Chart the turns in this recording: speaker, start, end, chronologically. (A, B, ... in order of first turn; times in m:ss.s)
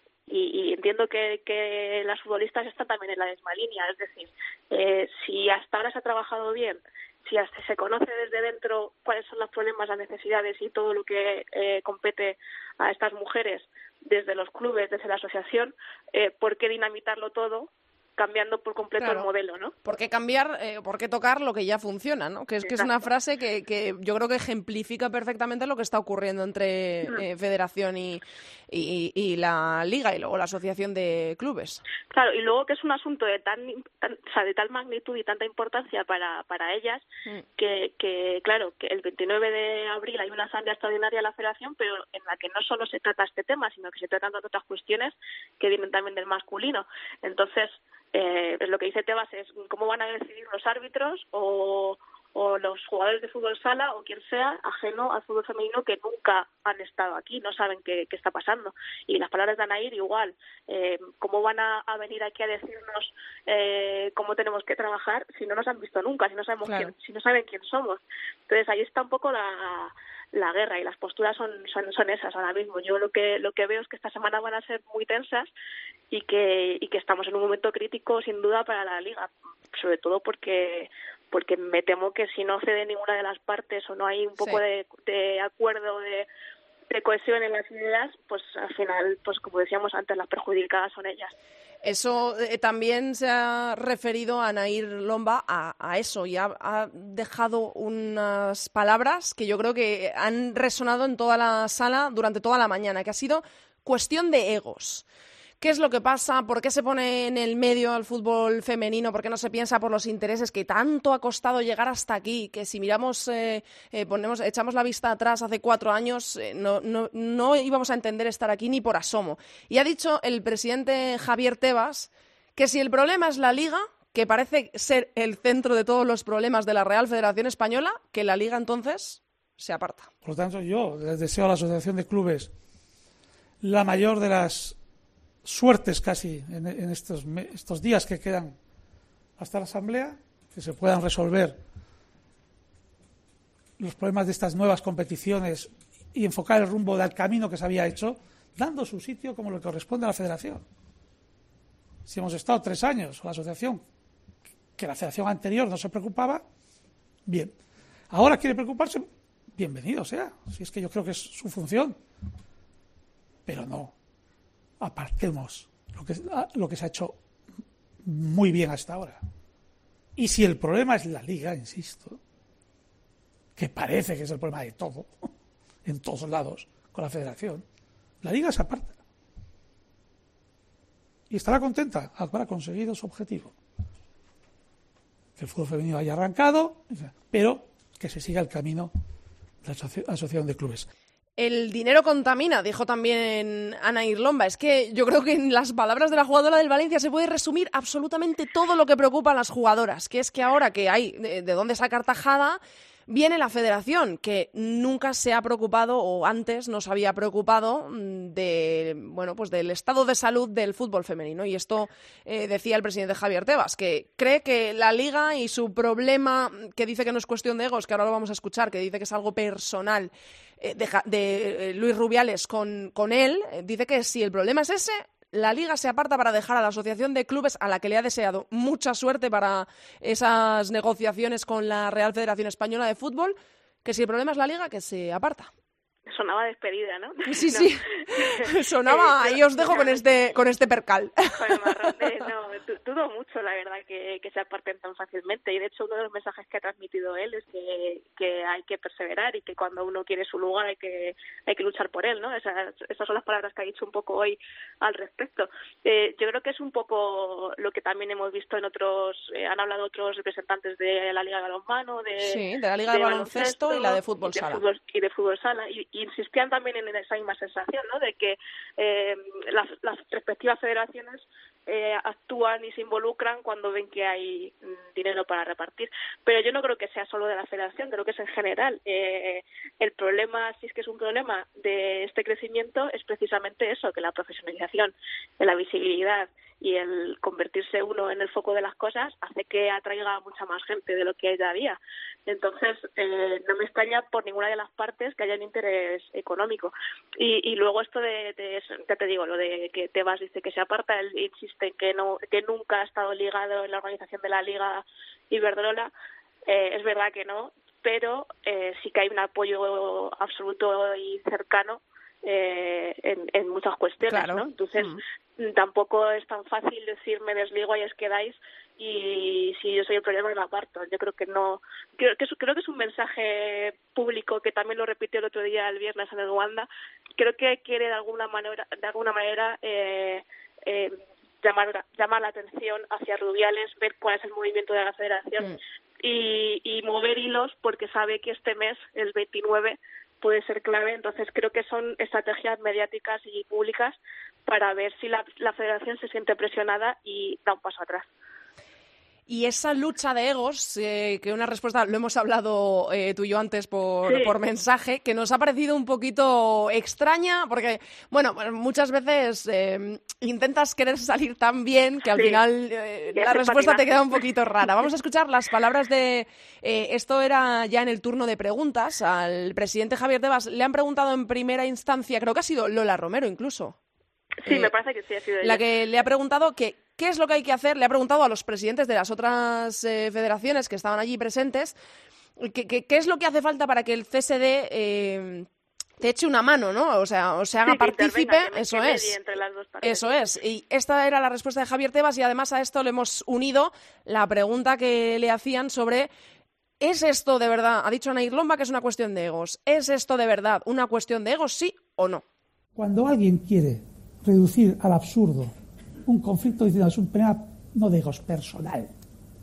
0:00.3-0:19.8 A
0:19.0-0:19.3 B
0:19.8-0:31.8 B
0:22.6-0:22.9 A
0:32.1-1:15.5 A
1:06.6-1:06.9 B
1:16.1-1:26.3 A
1:24.4-1:24.6 B
1:26.9-1:31.4 A
1:31.8-1:45.0 B
1:45.6-2:10.1 B
2:10.2-2:12.5 C
2:13.6-2:14.8 C
2:15.4-2:18.6 C
2:19.4-2:21.6 C
2:23.8-2:30.6 C
2:32.1-2:33.8 C
2:34.8-2:36.4 C
2:37.3-2:37.5 C
2:38.1-2:42.0 C
2:43.5-2:43.9 C
2:44.8-2:47.2 C
2:48.0-2:49.2 C
2:50.2-2:52.2 C
2:53.6-2:55.3 C
2:55.8-2:57.6 C
2:58.2-2:59.0 C
3:01.3-3:03.5 C
3:05.4-3:08.9 C
3:09.6-3:10.9 C
3:11.4-3:55.5 B
3:56.1-4:00.3 A
3:57.3-4:02.2 B
4:01.4-4:22.4 A
4:22.2-4:24.6 B
4:22.9-5:05.9 A
5:06.5-5:48.1 A
5:14.1-5:15.0 B
5:49.3-6:13.8 B
5:54.1-5:54.3 A
6:02.1-6:02.4 A
6:03.1-6:04.2 A
6:14.4-6:15.6 A
6:14.5-6:14.7 B
6:15.4-6:21.8 B
6:22.4-6:25.5 B
6:26.0-6:29.2 B
6:27.6-6:30.3 A
6:29.8-6:36.1 B
6:36.8-6:42.2 B
6:42.8-6:45.5 C
6:46.1-6:48.9 C